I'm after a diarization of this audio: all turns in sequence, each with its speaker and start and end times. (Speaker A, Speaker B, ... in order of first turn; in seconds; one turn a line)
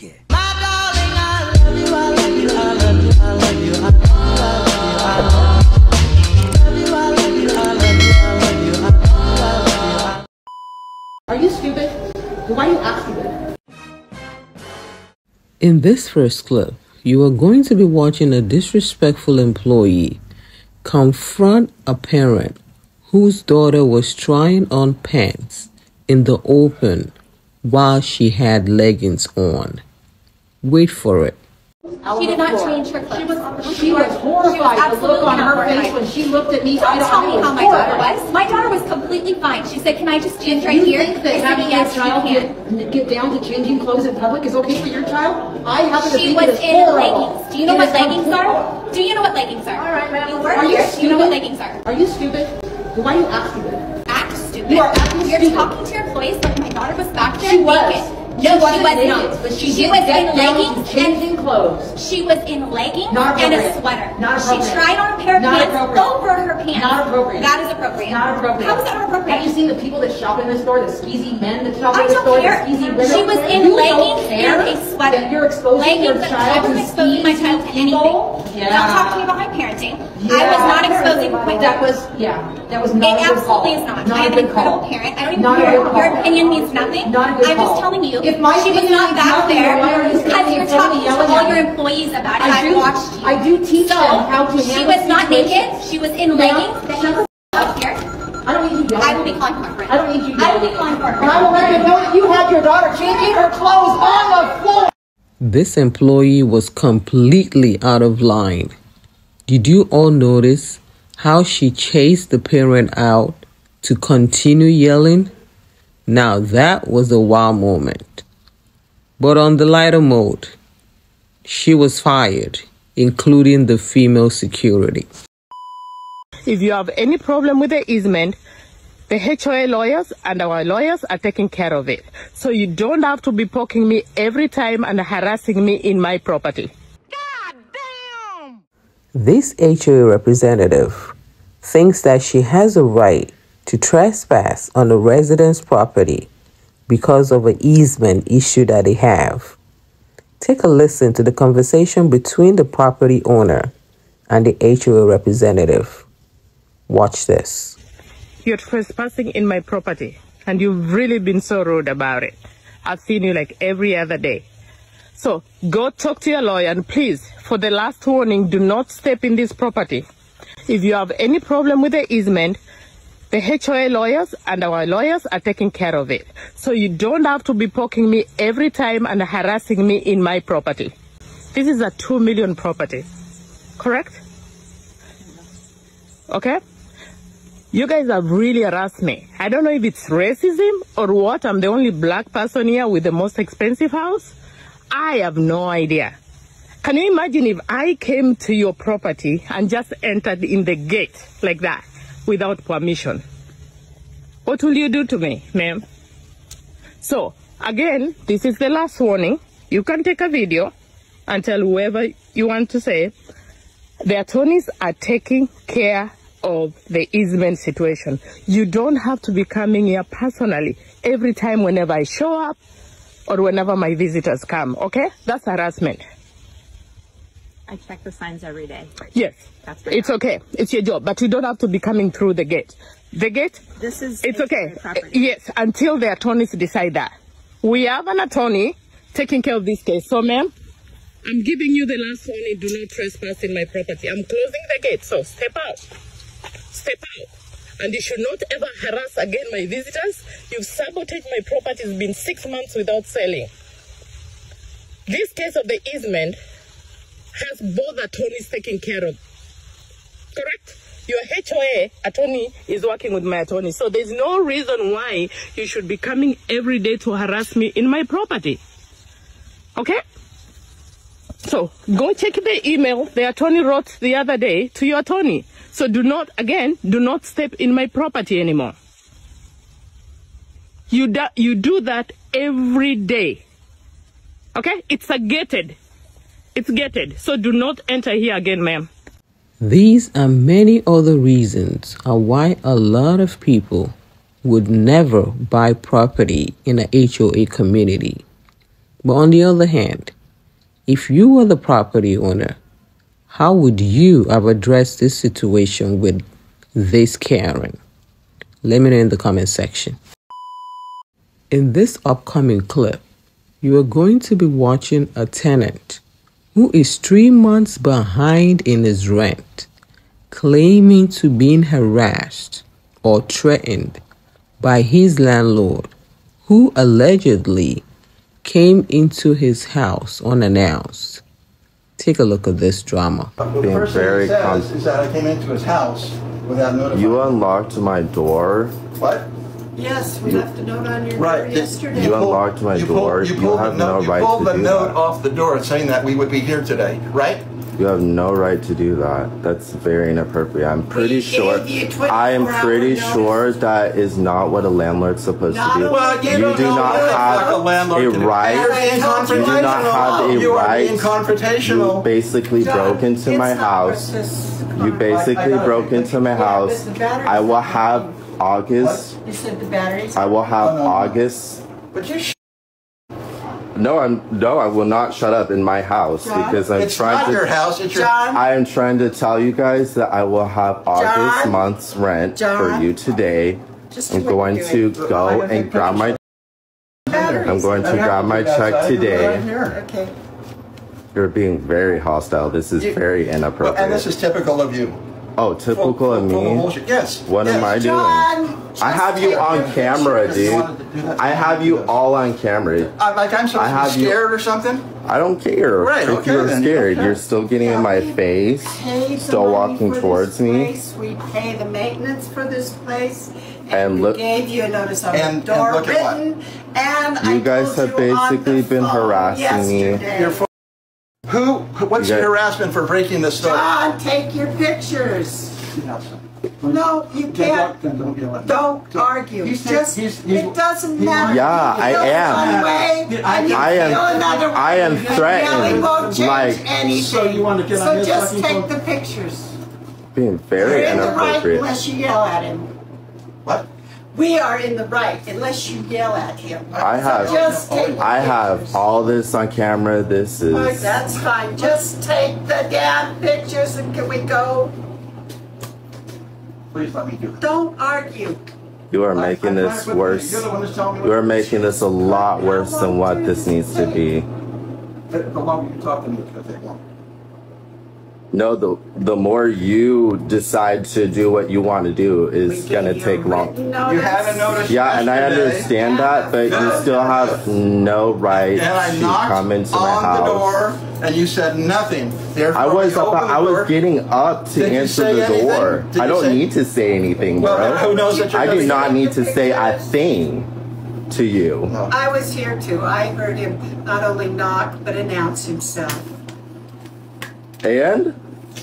Speaker A: 0.3-5.7
Speaker A: 6.5-10.2
Speaker A: 11.3-13.4
Speaker B: 15.6-20.2
Speaker B: 20.8-29.8
Speaker B: 30.6-31.4
Speaker A: 32.0-38.1
Speaker C: 32.1-36.1
Speaker C: 36.7-42.5
Speaker A: 40.4-48.7
Speaker C: 45.9-51.8
Speaker A: 49.7-53.8
Speaker C: 54.1-61.3
Speaker A: 54.6-55.7
Speaker A: 57.4-61.9
Speaker C: 61.9-69.5
Speaker A: 63.1-79.3
Speaker C: 71.9-81.9
Speaker A: 80.1-91.7
Speaker C: 83.0-98.0
Speaker A: 92.3-95.8
Speaker A: 96.3-97.7
Speaker A: 98.4-104.9
Speaker C: 98.9-103.5
Speaker B: 105.4-108.7
Speaker B: 109.5-115.3
Speaker B: 116.1-118.2
Speaker B: 119.2-120.5
Speaker B: 121.4-125.1
Speaker D: 126.5-128.4
Speaker D: 129.1-136.7
Speaker B: 139.1-146.3
Speaker B: 146.9-149.6
Speaker B: 150.4-153.7
Speaker B: 154.3-156.0
Speaker B: 156.9-157.8
Speaker D: 158.4-164.4
Speaker D: 165.1-170.1
Speaker D: 170.7-172.6
Speaker D: 173.3-180.9
Speaker D: 181.5-183.1
Speaker D: 183.8-184.2
Speaker D: 186.3-186.6
Speaker D: 187.7-194.3
Speaker D: 194.9-196.2
Speaker D: 196.8-203.2
Speaker D: 204.4-205.8
Speaker D: 207.0-210.7
Speaker D: 211.3-213.1
Speaker D: 214.0-222.6
Speaker D: 223.3-226.0
Speaker E: 227.7-228.9
Speaker D: 229.1-233.6
Speaker E: 229.6-230.2
Speaker E: 233.8-235.3
Speaker D: 234.2-240.5
Speaker D: 241.2-245.8
Speaker D: 246.7-247.3
Speaker D: 247.8-253.5
Speaker D: 255.1-256.4
Speaker D: 257.3-259.2
Speaker D: 260.3-268.6
Speaker D: 269.8-270.0
Speaker D: 271.4-278.8
Speaker D: 280.9-283.4
Speaker D: 284.5-285.8
Speaker D: 286.5-288.9
Speaker B: 289.6-298.2
Speaker B: 299.0-300.1
Speaker B: 300.9-302.6
Speaker B: 303.3-306.2
Speaker B: 306.7-307.8
Speaker B: 308.6-310.0
Speaker B: 311.5-313.0
Speaker B: 313.6-316.0
Speaker B: 316.5-319.7
Speaker B: 320.3-324.0
Speaker B: 324.6-325.9
Speaker B: 326.4-327.8
Speaker B: 328.4-331.2
Speaker B: 332.0-333.3
Speaker F: 333.4-337.3
Speaker G: 333.6-334.7
Speaker G: 336.9-338.8
Speaker F: 338.9-339.3
Speaker H: 339.7-342.3
Speaker F: 341.1-347.4
Speaker G: 341.9-345.0
Speaker G: 347.8-361.1
Speaker H: 350.9-353.4
Speaker H: 355.5-357.7
Speaker F: 355.8-362.0
Speaker H: 358.4-360.4
Speaker G: 361.6-364.1
Speaker H: 362.6-365.1
Speaker G: 364.7-369.1
Speaker F: 365.1-366.1
Speaker H: 366.1-368.1
Speaker F: 368.8-369.1
Speaker H: 369.2-370.3
Speaker G: 370.1-371.6
Speaker F: 370.6-371.1
Speaker F: 371.9-372.3
Speaker G: 373.7-377.5
Speaker H: 376.2-376.6
Speaker F: 376.5-378.2
Speaker H: 377.9-378.4
Speaker G: 378.3-386.2
Speaker H: 380.9-381.6
Speaker H: 382.3-382.9
Speaker H: 383.9-384.9
Speaker F: 384.9-386.2
Speaker F: 387.1-389.8
Speaker H: 387.1-388.0
Speaker G: 387.4-389.4
Speaker H: 389.1-390.1
Speaker G: 391.1-394.1
Speaker F: 393.6-395.0
Speaker G: 395.4-396.7
Speaker F: 395.7-397.7
Speaker G: 397.2-402.9
Speaker H: 397.4-400.6
Speaker F: 399.1-401.9
Speaker F: 402.9-404.9
Speaker G: 403.5-404.2
Speaker G: 405.0-410.7
Speaker F: 405.8-407.2
Speaker H: 407.6-420.4
Speaker G: 413.7-414.2
Speaker F: 415.1-416.2
Speaker G: 417.2-420.0
Speaker F: 420.1-420.4
Speaker F: 421.3-423.7
Speaker G: 422.0-422.3
Speaker H: 423.4-425.6
Speaker F: 425.7-438.7
Speaker H: 426.6-427.8
Speaker H: 428.4-439.6
Speaker G: 431.2-432.6
Speaker G: 433.5-436.7
Speaker G: 440.1-441.7
Speaker H: 440.6-442.7
Speaker F: 440.6-441.4
Speaker H: 444.1-448.8
Speaker F: 446.7-448.4
Speaker G: 446.8-451.0
Speaker H: 450.5-454.7
Speaker F: 456.7-457.4
Speaker H: 457.4-458.4
Speaker G: 458.9-460.5
Speaker F: 459.1-462.2
Speaker G: 461.0-464.3
Speaker H: 462.2-464.0
Speaker F: 465.1-466.8
Speaker G: 468.3-473.5
Speaker H: 472.4-477.4
Speaker F: 473.8-475.7
Speaker G: 474.6-480.6
Speaker F: 476.4-477.4
Speaker F: 478.3-483.7
Speaker G: 482.5-490.5
Speaker F: 484.6-486.4
Speaker F: 487.4-489.0
Speaker H: 487.4-490.2
Speaker G: 491.1-491.7
Speaker H: 491.9-496.1
Speaker G: 497.6-498.1